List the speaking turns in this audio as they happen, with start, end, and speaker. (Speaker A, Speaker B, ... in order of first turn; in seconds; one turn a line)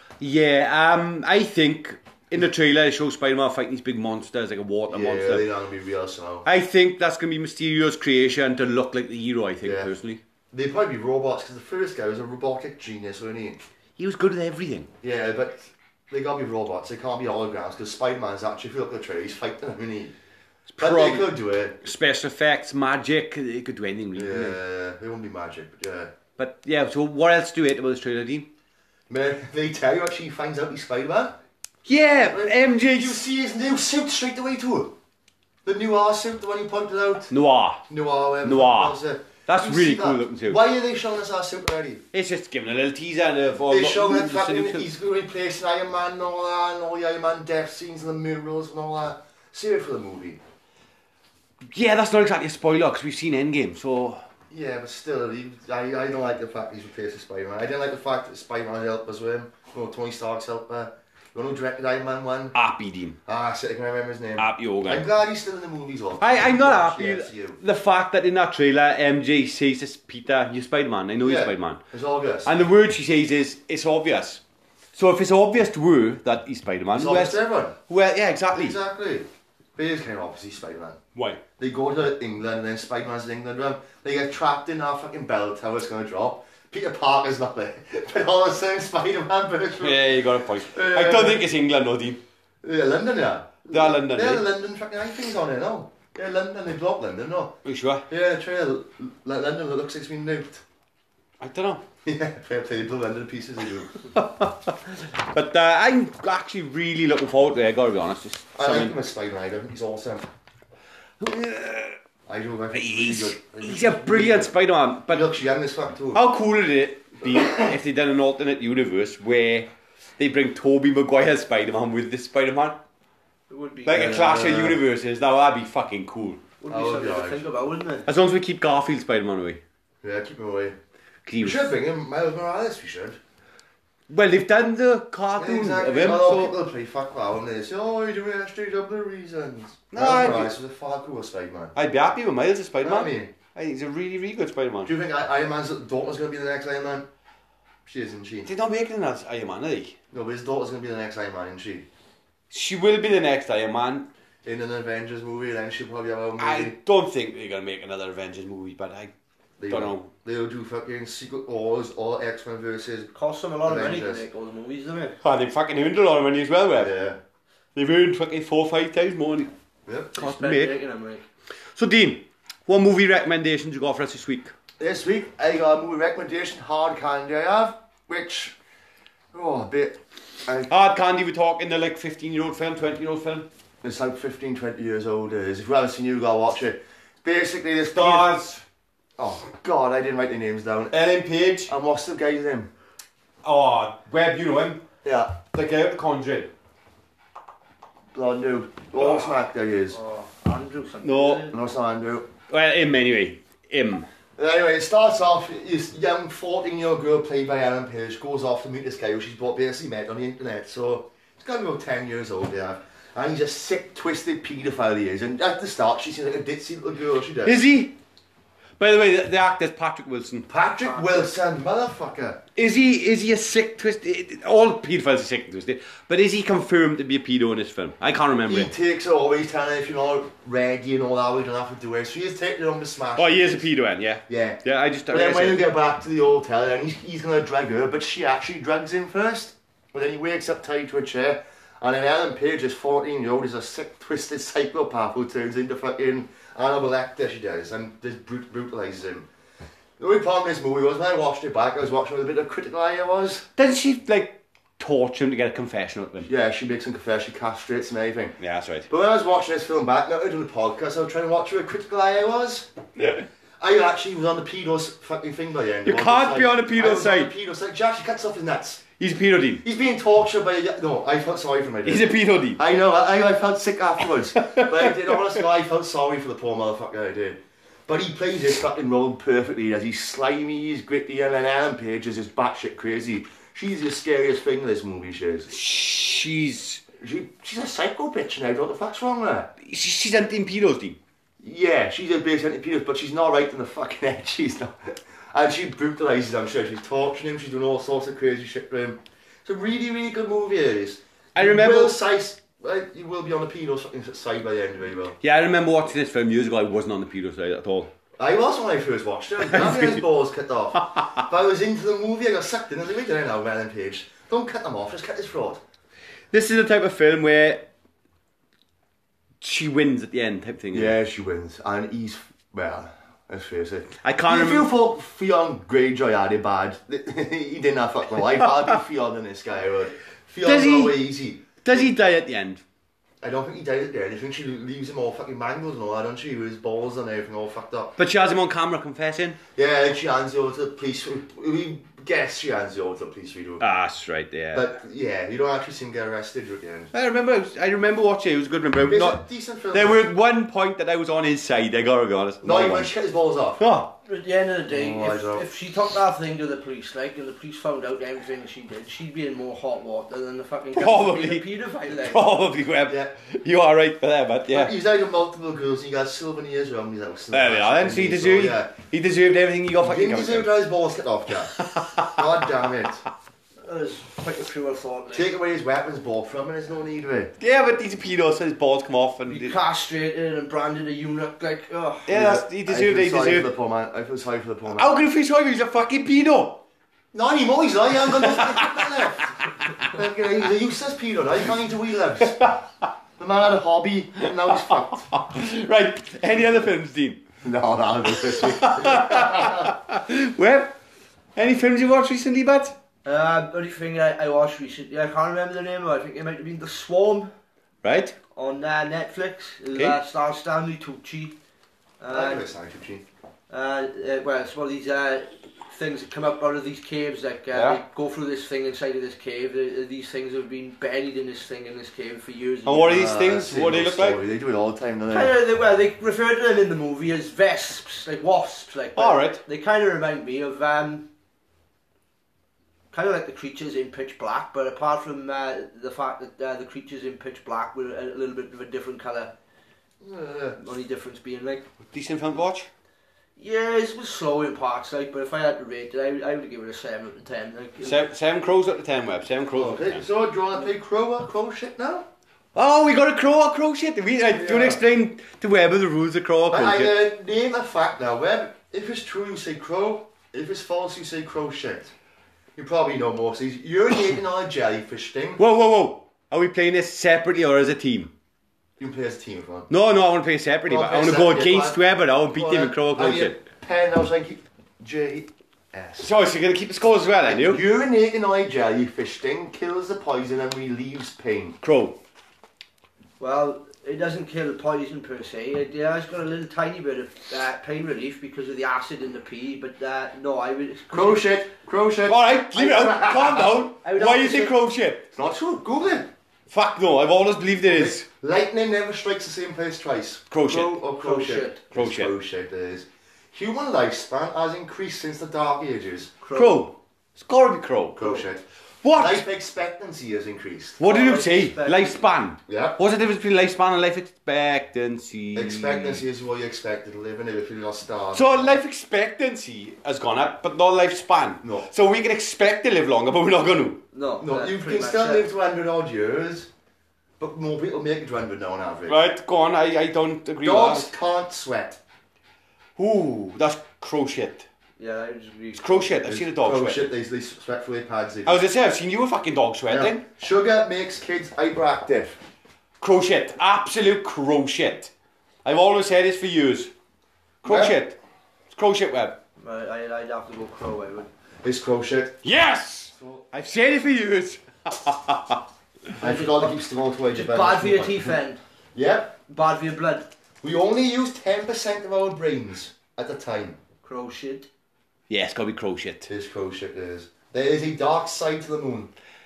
Speaker A: 0.2-5.5
Speaker B: 4.9-6.5
Speaker A: 6.5-10.2
Speaker B: 9.6-9.9
Speaker B: 10.5-13.6
Speaker A: 14.0-14.9
Speaker B: 15.0-20.1
Speaker A: 20.7-21.3
Speaker B: 20.8-21.8
Speaker A: 21.8-24.6
Speaker B: 24.1-26.1
Speaker A: 26.4-28.5
Speaker B: 29.1-31.4
Speaker A: 31.9-33.2
Speaker B: 32.2-35.0
Speaker B: 35.6-37.3
Speaker A: 37.3-37.8
Speaker B: 37.9-42.0
Speaker A: 38.4-40.6
Speaker A: 42.1-44.9
Speaker B: 43.7-50.4
Speaker A: 51.7-54.2
Speaker B: 54.5-62.5
Speaker A: 62.5-63.2
Speaker B: 63.3-67.6
Speaker A: 64.4-65.1
Speaker A: 66.2-71.8
Speaker B: 71.2-72.5
Speaker A: 72.5-74.4
Speaker A: 75.0-78.8
Speaker B: 76.9-77.8
Speaker B: 78.5-81.0
Speaker A: 81.2-81.4
Speaker B: 81.6-91.4
Speaker A: 89.8-92.2
Speaker B: 92.6-97.6
Speaker A: 93.7-94.5
Speaker A: 97.7-98.1
Speaker B: 98.1-100.6
Speaker A: 101.4-101.8
Speaker B: 102.0-104.0
Speaker A: 104.1-108.9
Speaker B: 108.6-110.3
Speaker A: 111.2-112.0
Speaker B: 112.3-114.5
Speaker A: 112.7-115.3
Speaker B: 115.1-116.2
Speaker A: 116.1-122.8
Speaker C: 123.5-124.2
Speaker A: 123.9-126.4
Speaker B: 123.9-124.8
Speaker C: 126.6-128.1
Speaker B: 126.7-127.4
Speaker A: 128.1-129.6
Speaker B: 130.0-130.8
Speaker A: 131.3-131.7
Speaker B: 131.4-133.2
Speaker A: 134.1-136.5
Speaker B: 135.3-141.8
Speaker A: 139.9-140.5
Speaker A: 141.8-144.9
Speaker B: 142.8-143.4
Speaker B: 144.8-147.1
Speaker B: 147.9-148.5
Speaker A: 148.5-149.9
Speaker B: 150.1-151.9
Speaker A: 152.5-154.1
Speaker B: 154.4-156.8
Speaker A: 156.4-159.1
Speaker B: 159.6-163.1
Speaker A: 159.7-160.1
Speaker C: 163.2-165.2
Speaker B: 163.7-164.2
Speaker A: 165.2-166.9
Speaker B: 166.8-167.2
Speaker A: 167.8-169.5
Speaker B: 169.9-170.1
Speaker A: 170.2-170.8
Speaker C: 170.2-171.2
Speaker A: 171.8-174.5
Speaker B: 174.8-178.6
Speaker B: 179.3-180.7
Speaker A: 180.7-183.5
Speaker B: 183.8-188.3
Speaker A: 187.9-188.6
Speaker B: 189.2-190.9
Speaker A: 190.9-191.7
Speaker B: 191.7-192.7
Speaker A: 193.4-194.8
Speaker B: 195.0-195.4
Speaker A: 195.5-196.5
Speaker B: 198.1-200.0
Speaker A: 199.0-199.3
Speaker C: 199.9-201.6
Speaker A: 201.0-201.5
Speaker B: 201.5-202.3
Speaker A: 202.5-204.1
Speaker B: 204.4-217.6
Speaker A: 217.4-217.9
Speaker A: 218.8-220.5
Speaker B: 220.5-222.4
Speaker C: 220.8-221.3
Speaker A: 222.6-228.7
Speaker B: 228.5-233.7
Speaker A: 233.2-235.6
Speaker B: 234.3-249.3
Speaker B: 250.0-253.5
Speaker A: 253.6-256.3
Speaker B: 256.2-262.7
Speaker A: 258.4-258.9
Speaker A: 263.0-263.3
Speaker B: 263.6-268.8
Speaker A: 265.9-267.3
Speaker A: 269.0-269.6
Speaker B: 269.6-285.5
Speaker A: 271.9-272.6
Speaker A: 274.4-275.4
Speaker A: 285.5-286.8
Speaker B: 287.0-289.5
Speaker A: 289.6-291.0
Speaker B: 291.4-305.2
Speaker A: 301.4-302.0
Speaker A: 305.2-307.9
Speaker B: 308.2-315.6
Speaker A: 309.5-310.0
Speaker A: 316.3-317.7
Speaker A: 319.4-320.9
Speaker B: 320.7-331.9
Speaker A: 324.0-324.7
Speaker A: 330.4-331.0
Speaker A: 331.6-332.6
Speaker B: 333.2-338.0
Speaker A: 338.0-339.4
Speaker B: 339.6-343.6
Speaker A: 343.6-344.7
Speaker B: 344.5-346.9
Speaker A: 346.9-349.2
Speaker B: 348.9-350.1
Speaker A: 349.7-352.9
Speaker B: 352.4-353.7
Speaker A: 353.6-353.9
Speaker C: 354.1-362.3
Speaker B: 354.7-355.5
Speaker A: 360.8-364.7
Speaker B: 362.9-363.1
Speaker B: 364.5-368.7
Speaker A: 367.3-370.5
Speaker B: 369.8-373.0
Speaker A: 371.6-372.2
Speaker C: 373.6-375.3
Speaker B: 375.1-377.3
Speaker A: 377.4-379.6
Speaker C: 379.3-382.1
Speaker A: 382.1-383.5
Speaker B: 382.1-385.0
Speaker A: 384.7-386.6
Speaker B: 387.1-392.5
Speaker A: 388.2-389.0
Speaker B: 393.2-395.1
Speaker A: 394.3-397.2
Speaker B: 397.4-399.8
Speaker A: 398.1-400.8
Speaker A: 401.4-402.8
Speaker C: 403.1-407.3
Speaker A: 407.8-408.2
Speaker C: 408.3-411.4
Speaker C: 412.0-412.4
Speaker B: 412.1-413.0
Speaker C: 413.5-423.1
Speaker A: 417.5-417.8
Speaker A: 422.6-424.2
Speaker B: 422.9-425.4
Speaker C: 425.1-431.1
Speaker A: 429.0-429.4
Speaker C: 432.9-439.3
Speaker B: 440.0-440.6
Speaker C: 440.6-441.6
Speaker A: 441.9-442.7
Speaker C: 443.4-448.0
Speaker A: 447.8-450.0
Speaker B: 449.5-452.1
Speaker A: 452.6-456.9
Speaker B: 454.3-454.8
Speaker B: 456.5-461.9
Speaker B: 462.6-465.4
Speaker A: 465.4-468.1
Speaker B: 468.8-469.7
Speaker A: 469.7-473.4
Speaker B: 470.7-476.1
Speaker A: 476.0-477.6
Speaker B: 477.2-481.6
Speaker A: 481.6-482.0
Speaker C: 483.2-491.3
Speaker B: 490.9-493.6
Speaker A: 492.1-495.1
Speaker C: 493.8-494.6
Speaker B: 495.1-496.1
Speaker A: 496.5-498.1
Speaker B: 497.7-506.1
Speaker A: 500.3-500.8
Speaker C: 500.9-501.6
Speaker A: 501.7-502.1
Speaker C: 506.2-506.7
Speaker A: 506.3-508.2
Speaker B: 508.0-510.8
Speaker A: 508.8-509.2
Speaker A: 510.8-516.0
Speaker C: 510.8-512.1
Speaker B: 512.5-512.8
Speaker B: 515.4-518.6
Speaker A: 518.1-523.8
Speaker C: 523.9-525.3
Speaker B: 524.2-526.5
Speaker B: 527.2-529.0
Speaker A: 528.9-530.9
Speaker B: 530.4-531.8
Speaker A: 532.8-534.5
Speaker C: 534.8-535.9
Speaker A: 535.6-536.9
Speaker B: 536.0-538.4
Speaker A: 538.3-540.0
Speaker B: 539.7-542.2
Speaker A: 542.8-544.9
Speaker A: 545.5-546.7
Speaker A: 547.4-548.0
Speaker B: 547.4-547.8
Speaker A: 548.5-549.2
Speaker C: 549.4-551.1
Speaker B: 551.4-552.2
Speaker A: 552.2-555.4
Speaker B: 553.0-553.2
Speaker C: 556.0-556.6
Speaker B: 556.0-558.2
Speaker C: 557.1-558.4
Speaker B: 558.8-559.1
Speaker C: 559.3-560.1
Speaker B: 560.4-563.6
Speaker C: 563.8-564.5
Speaker A: 565.1-566.1
Speaker B: 566.1-568.9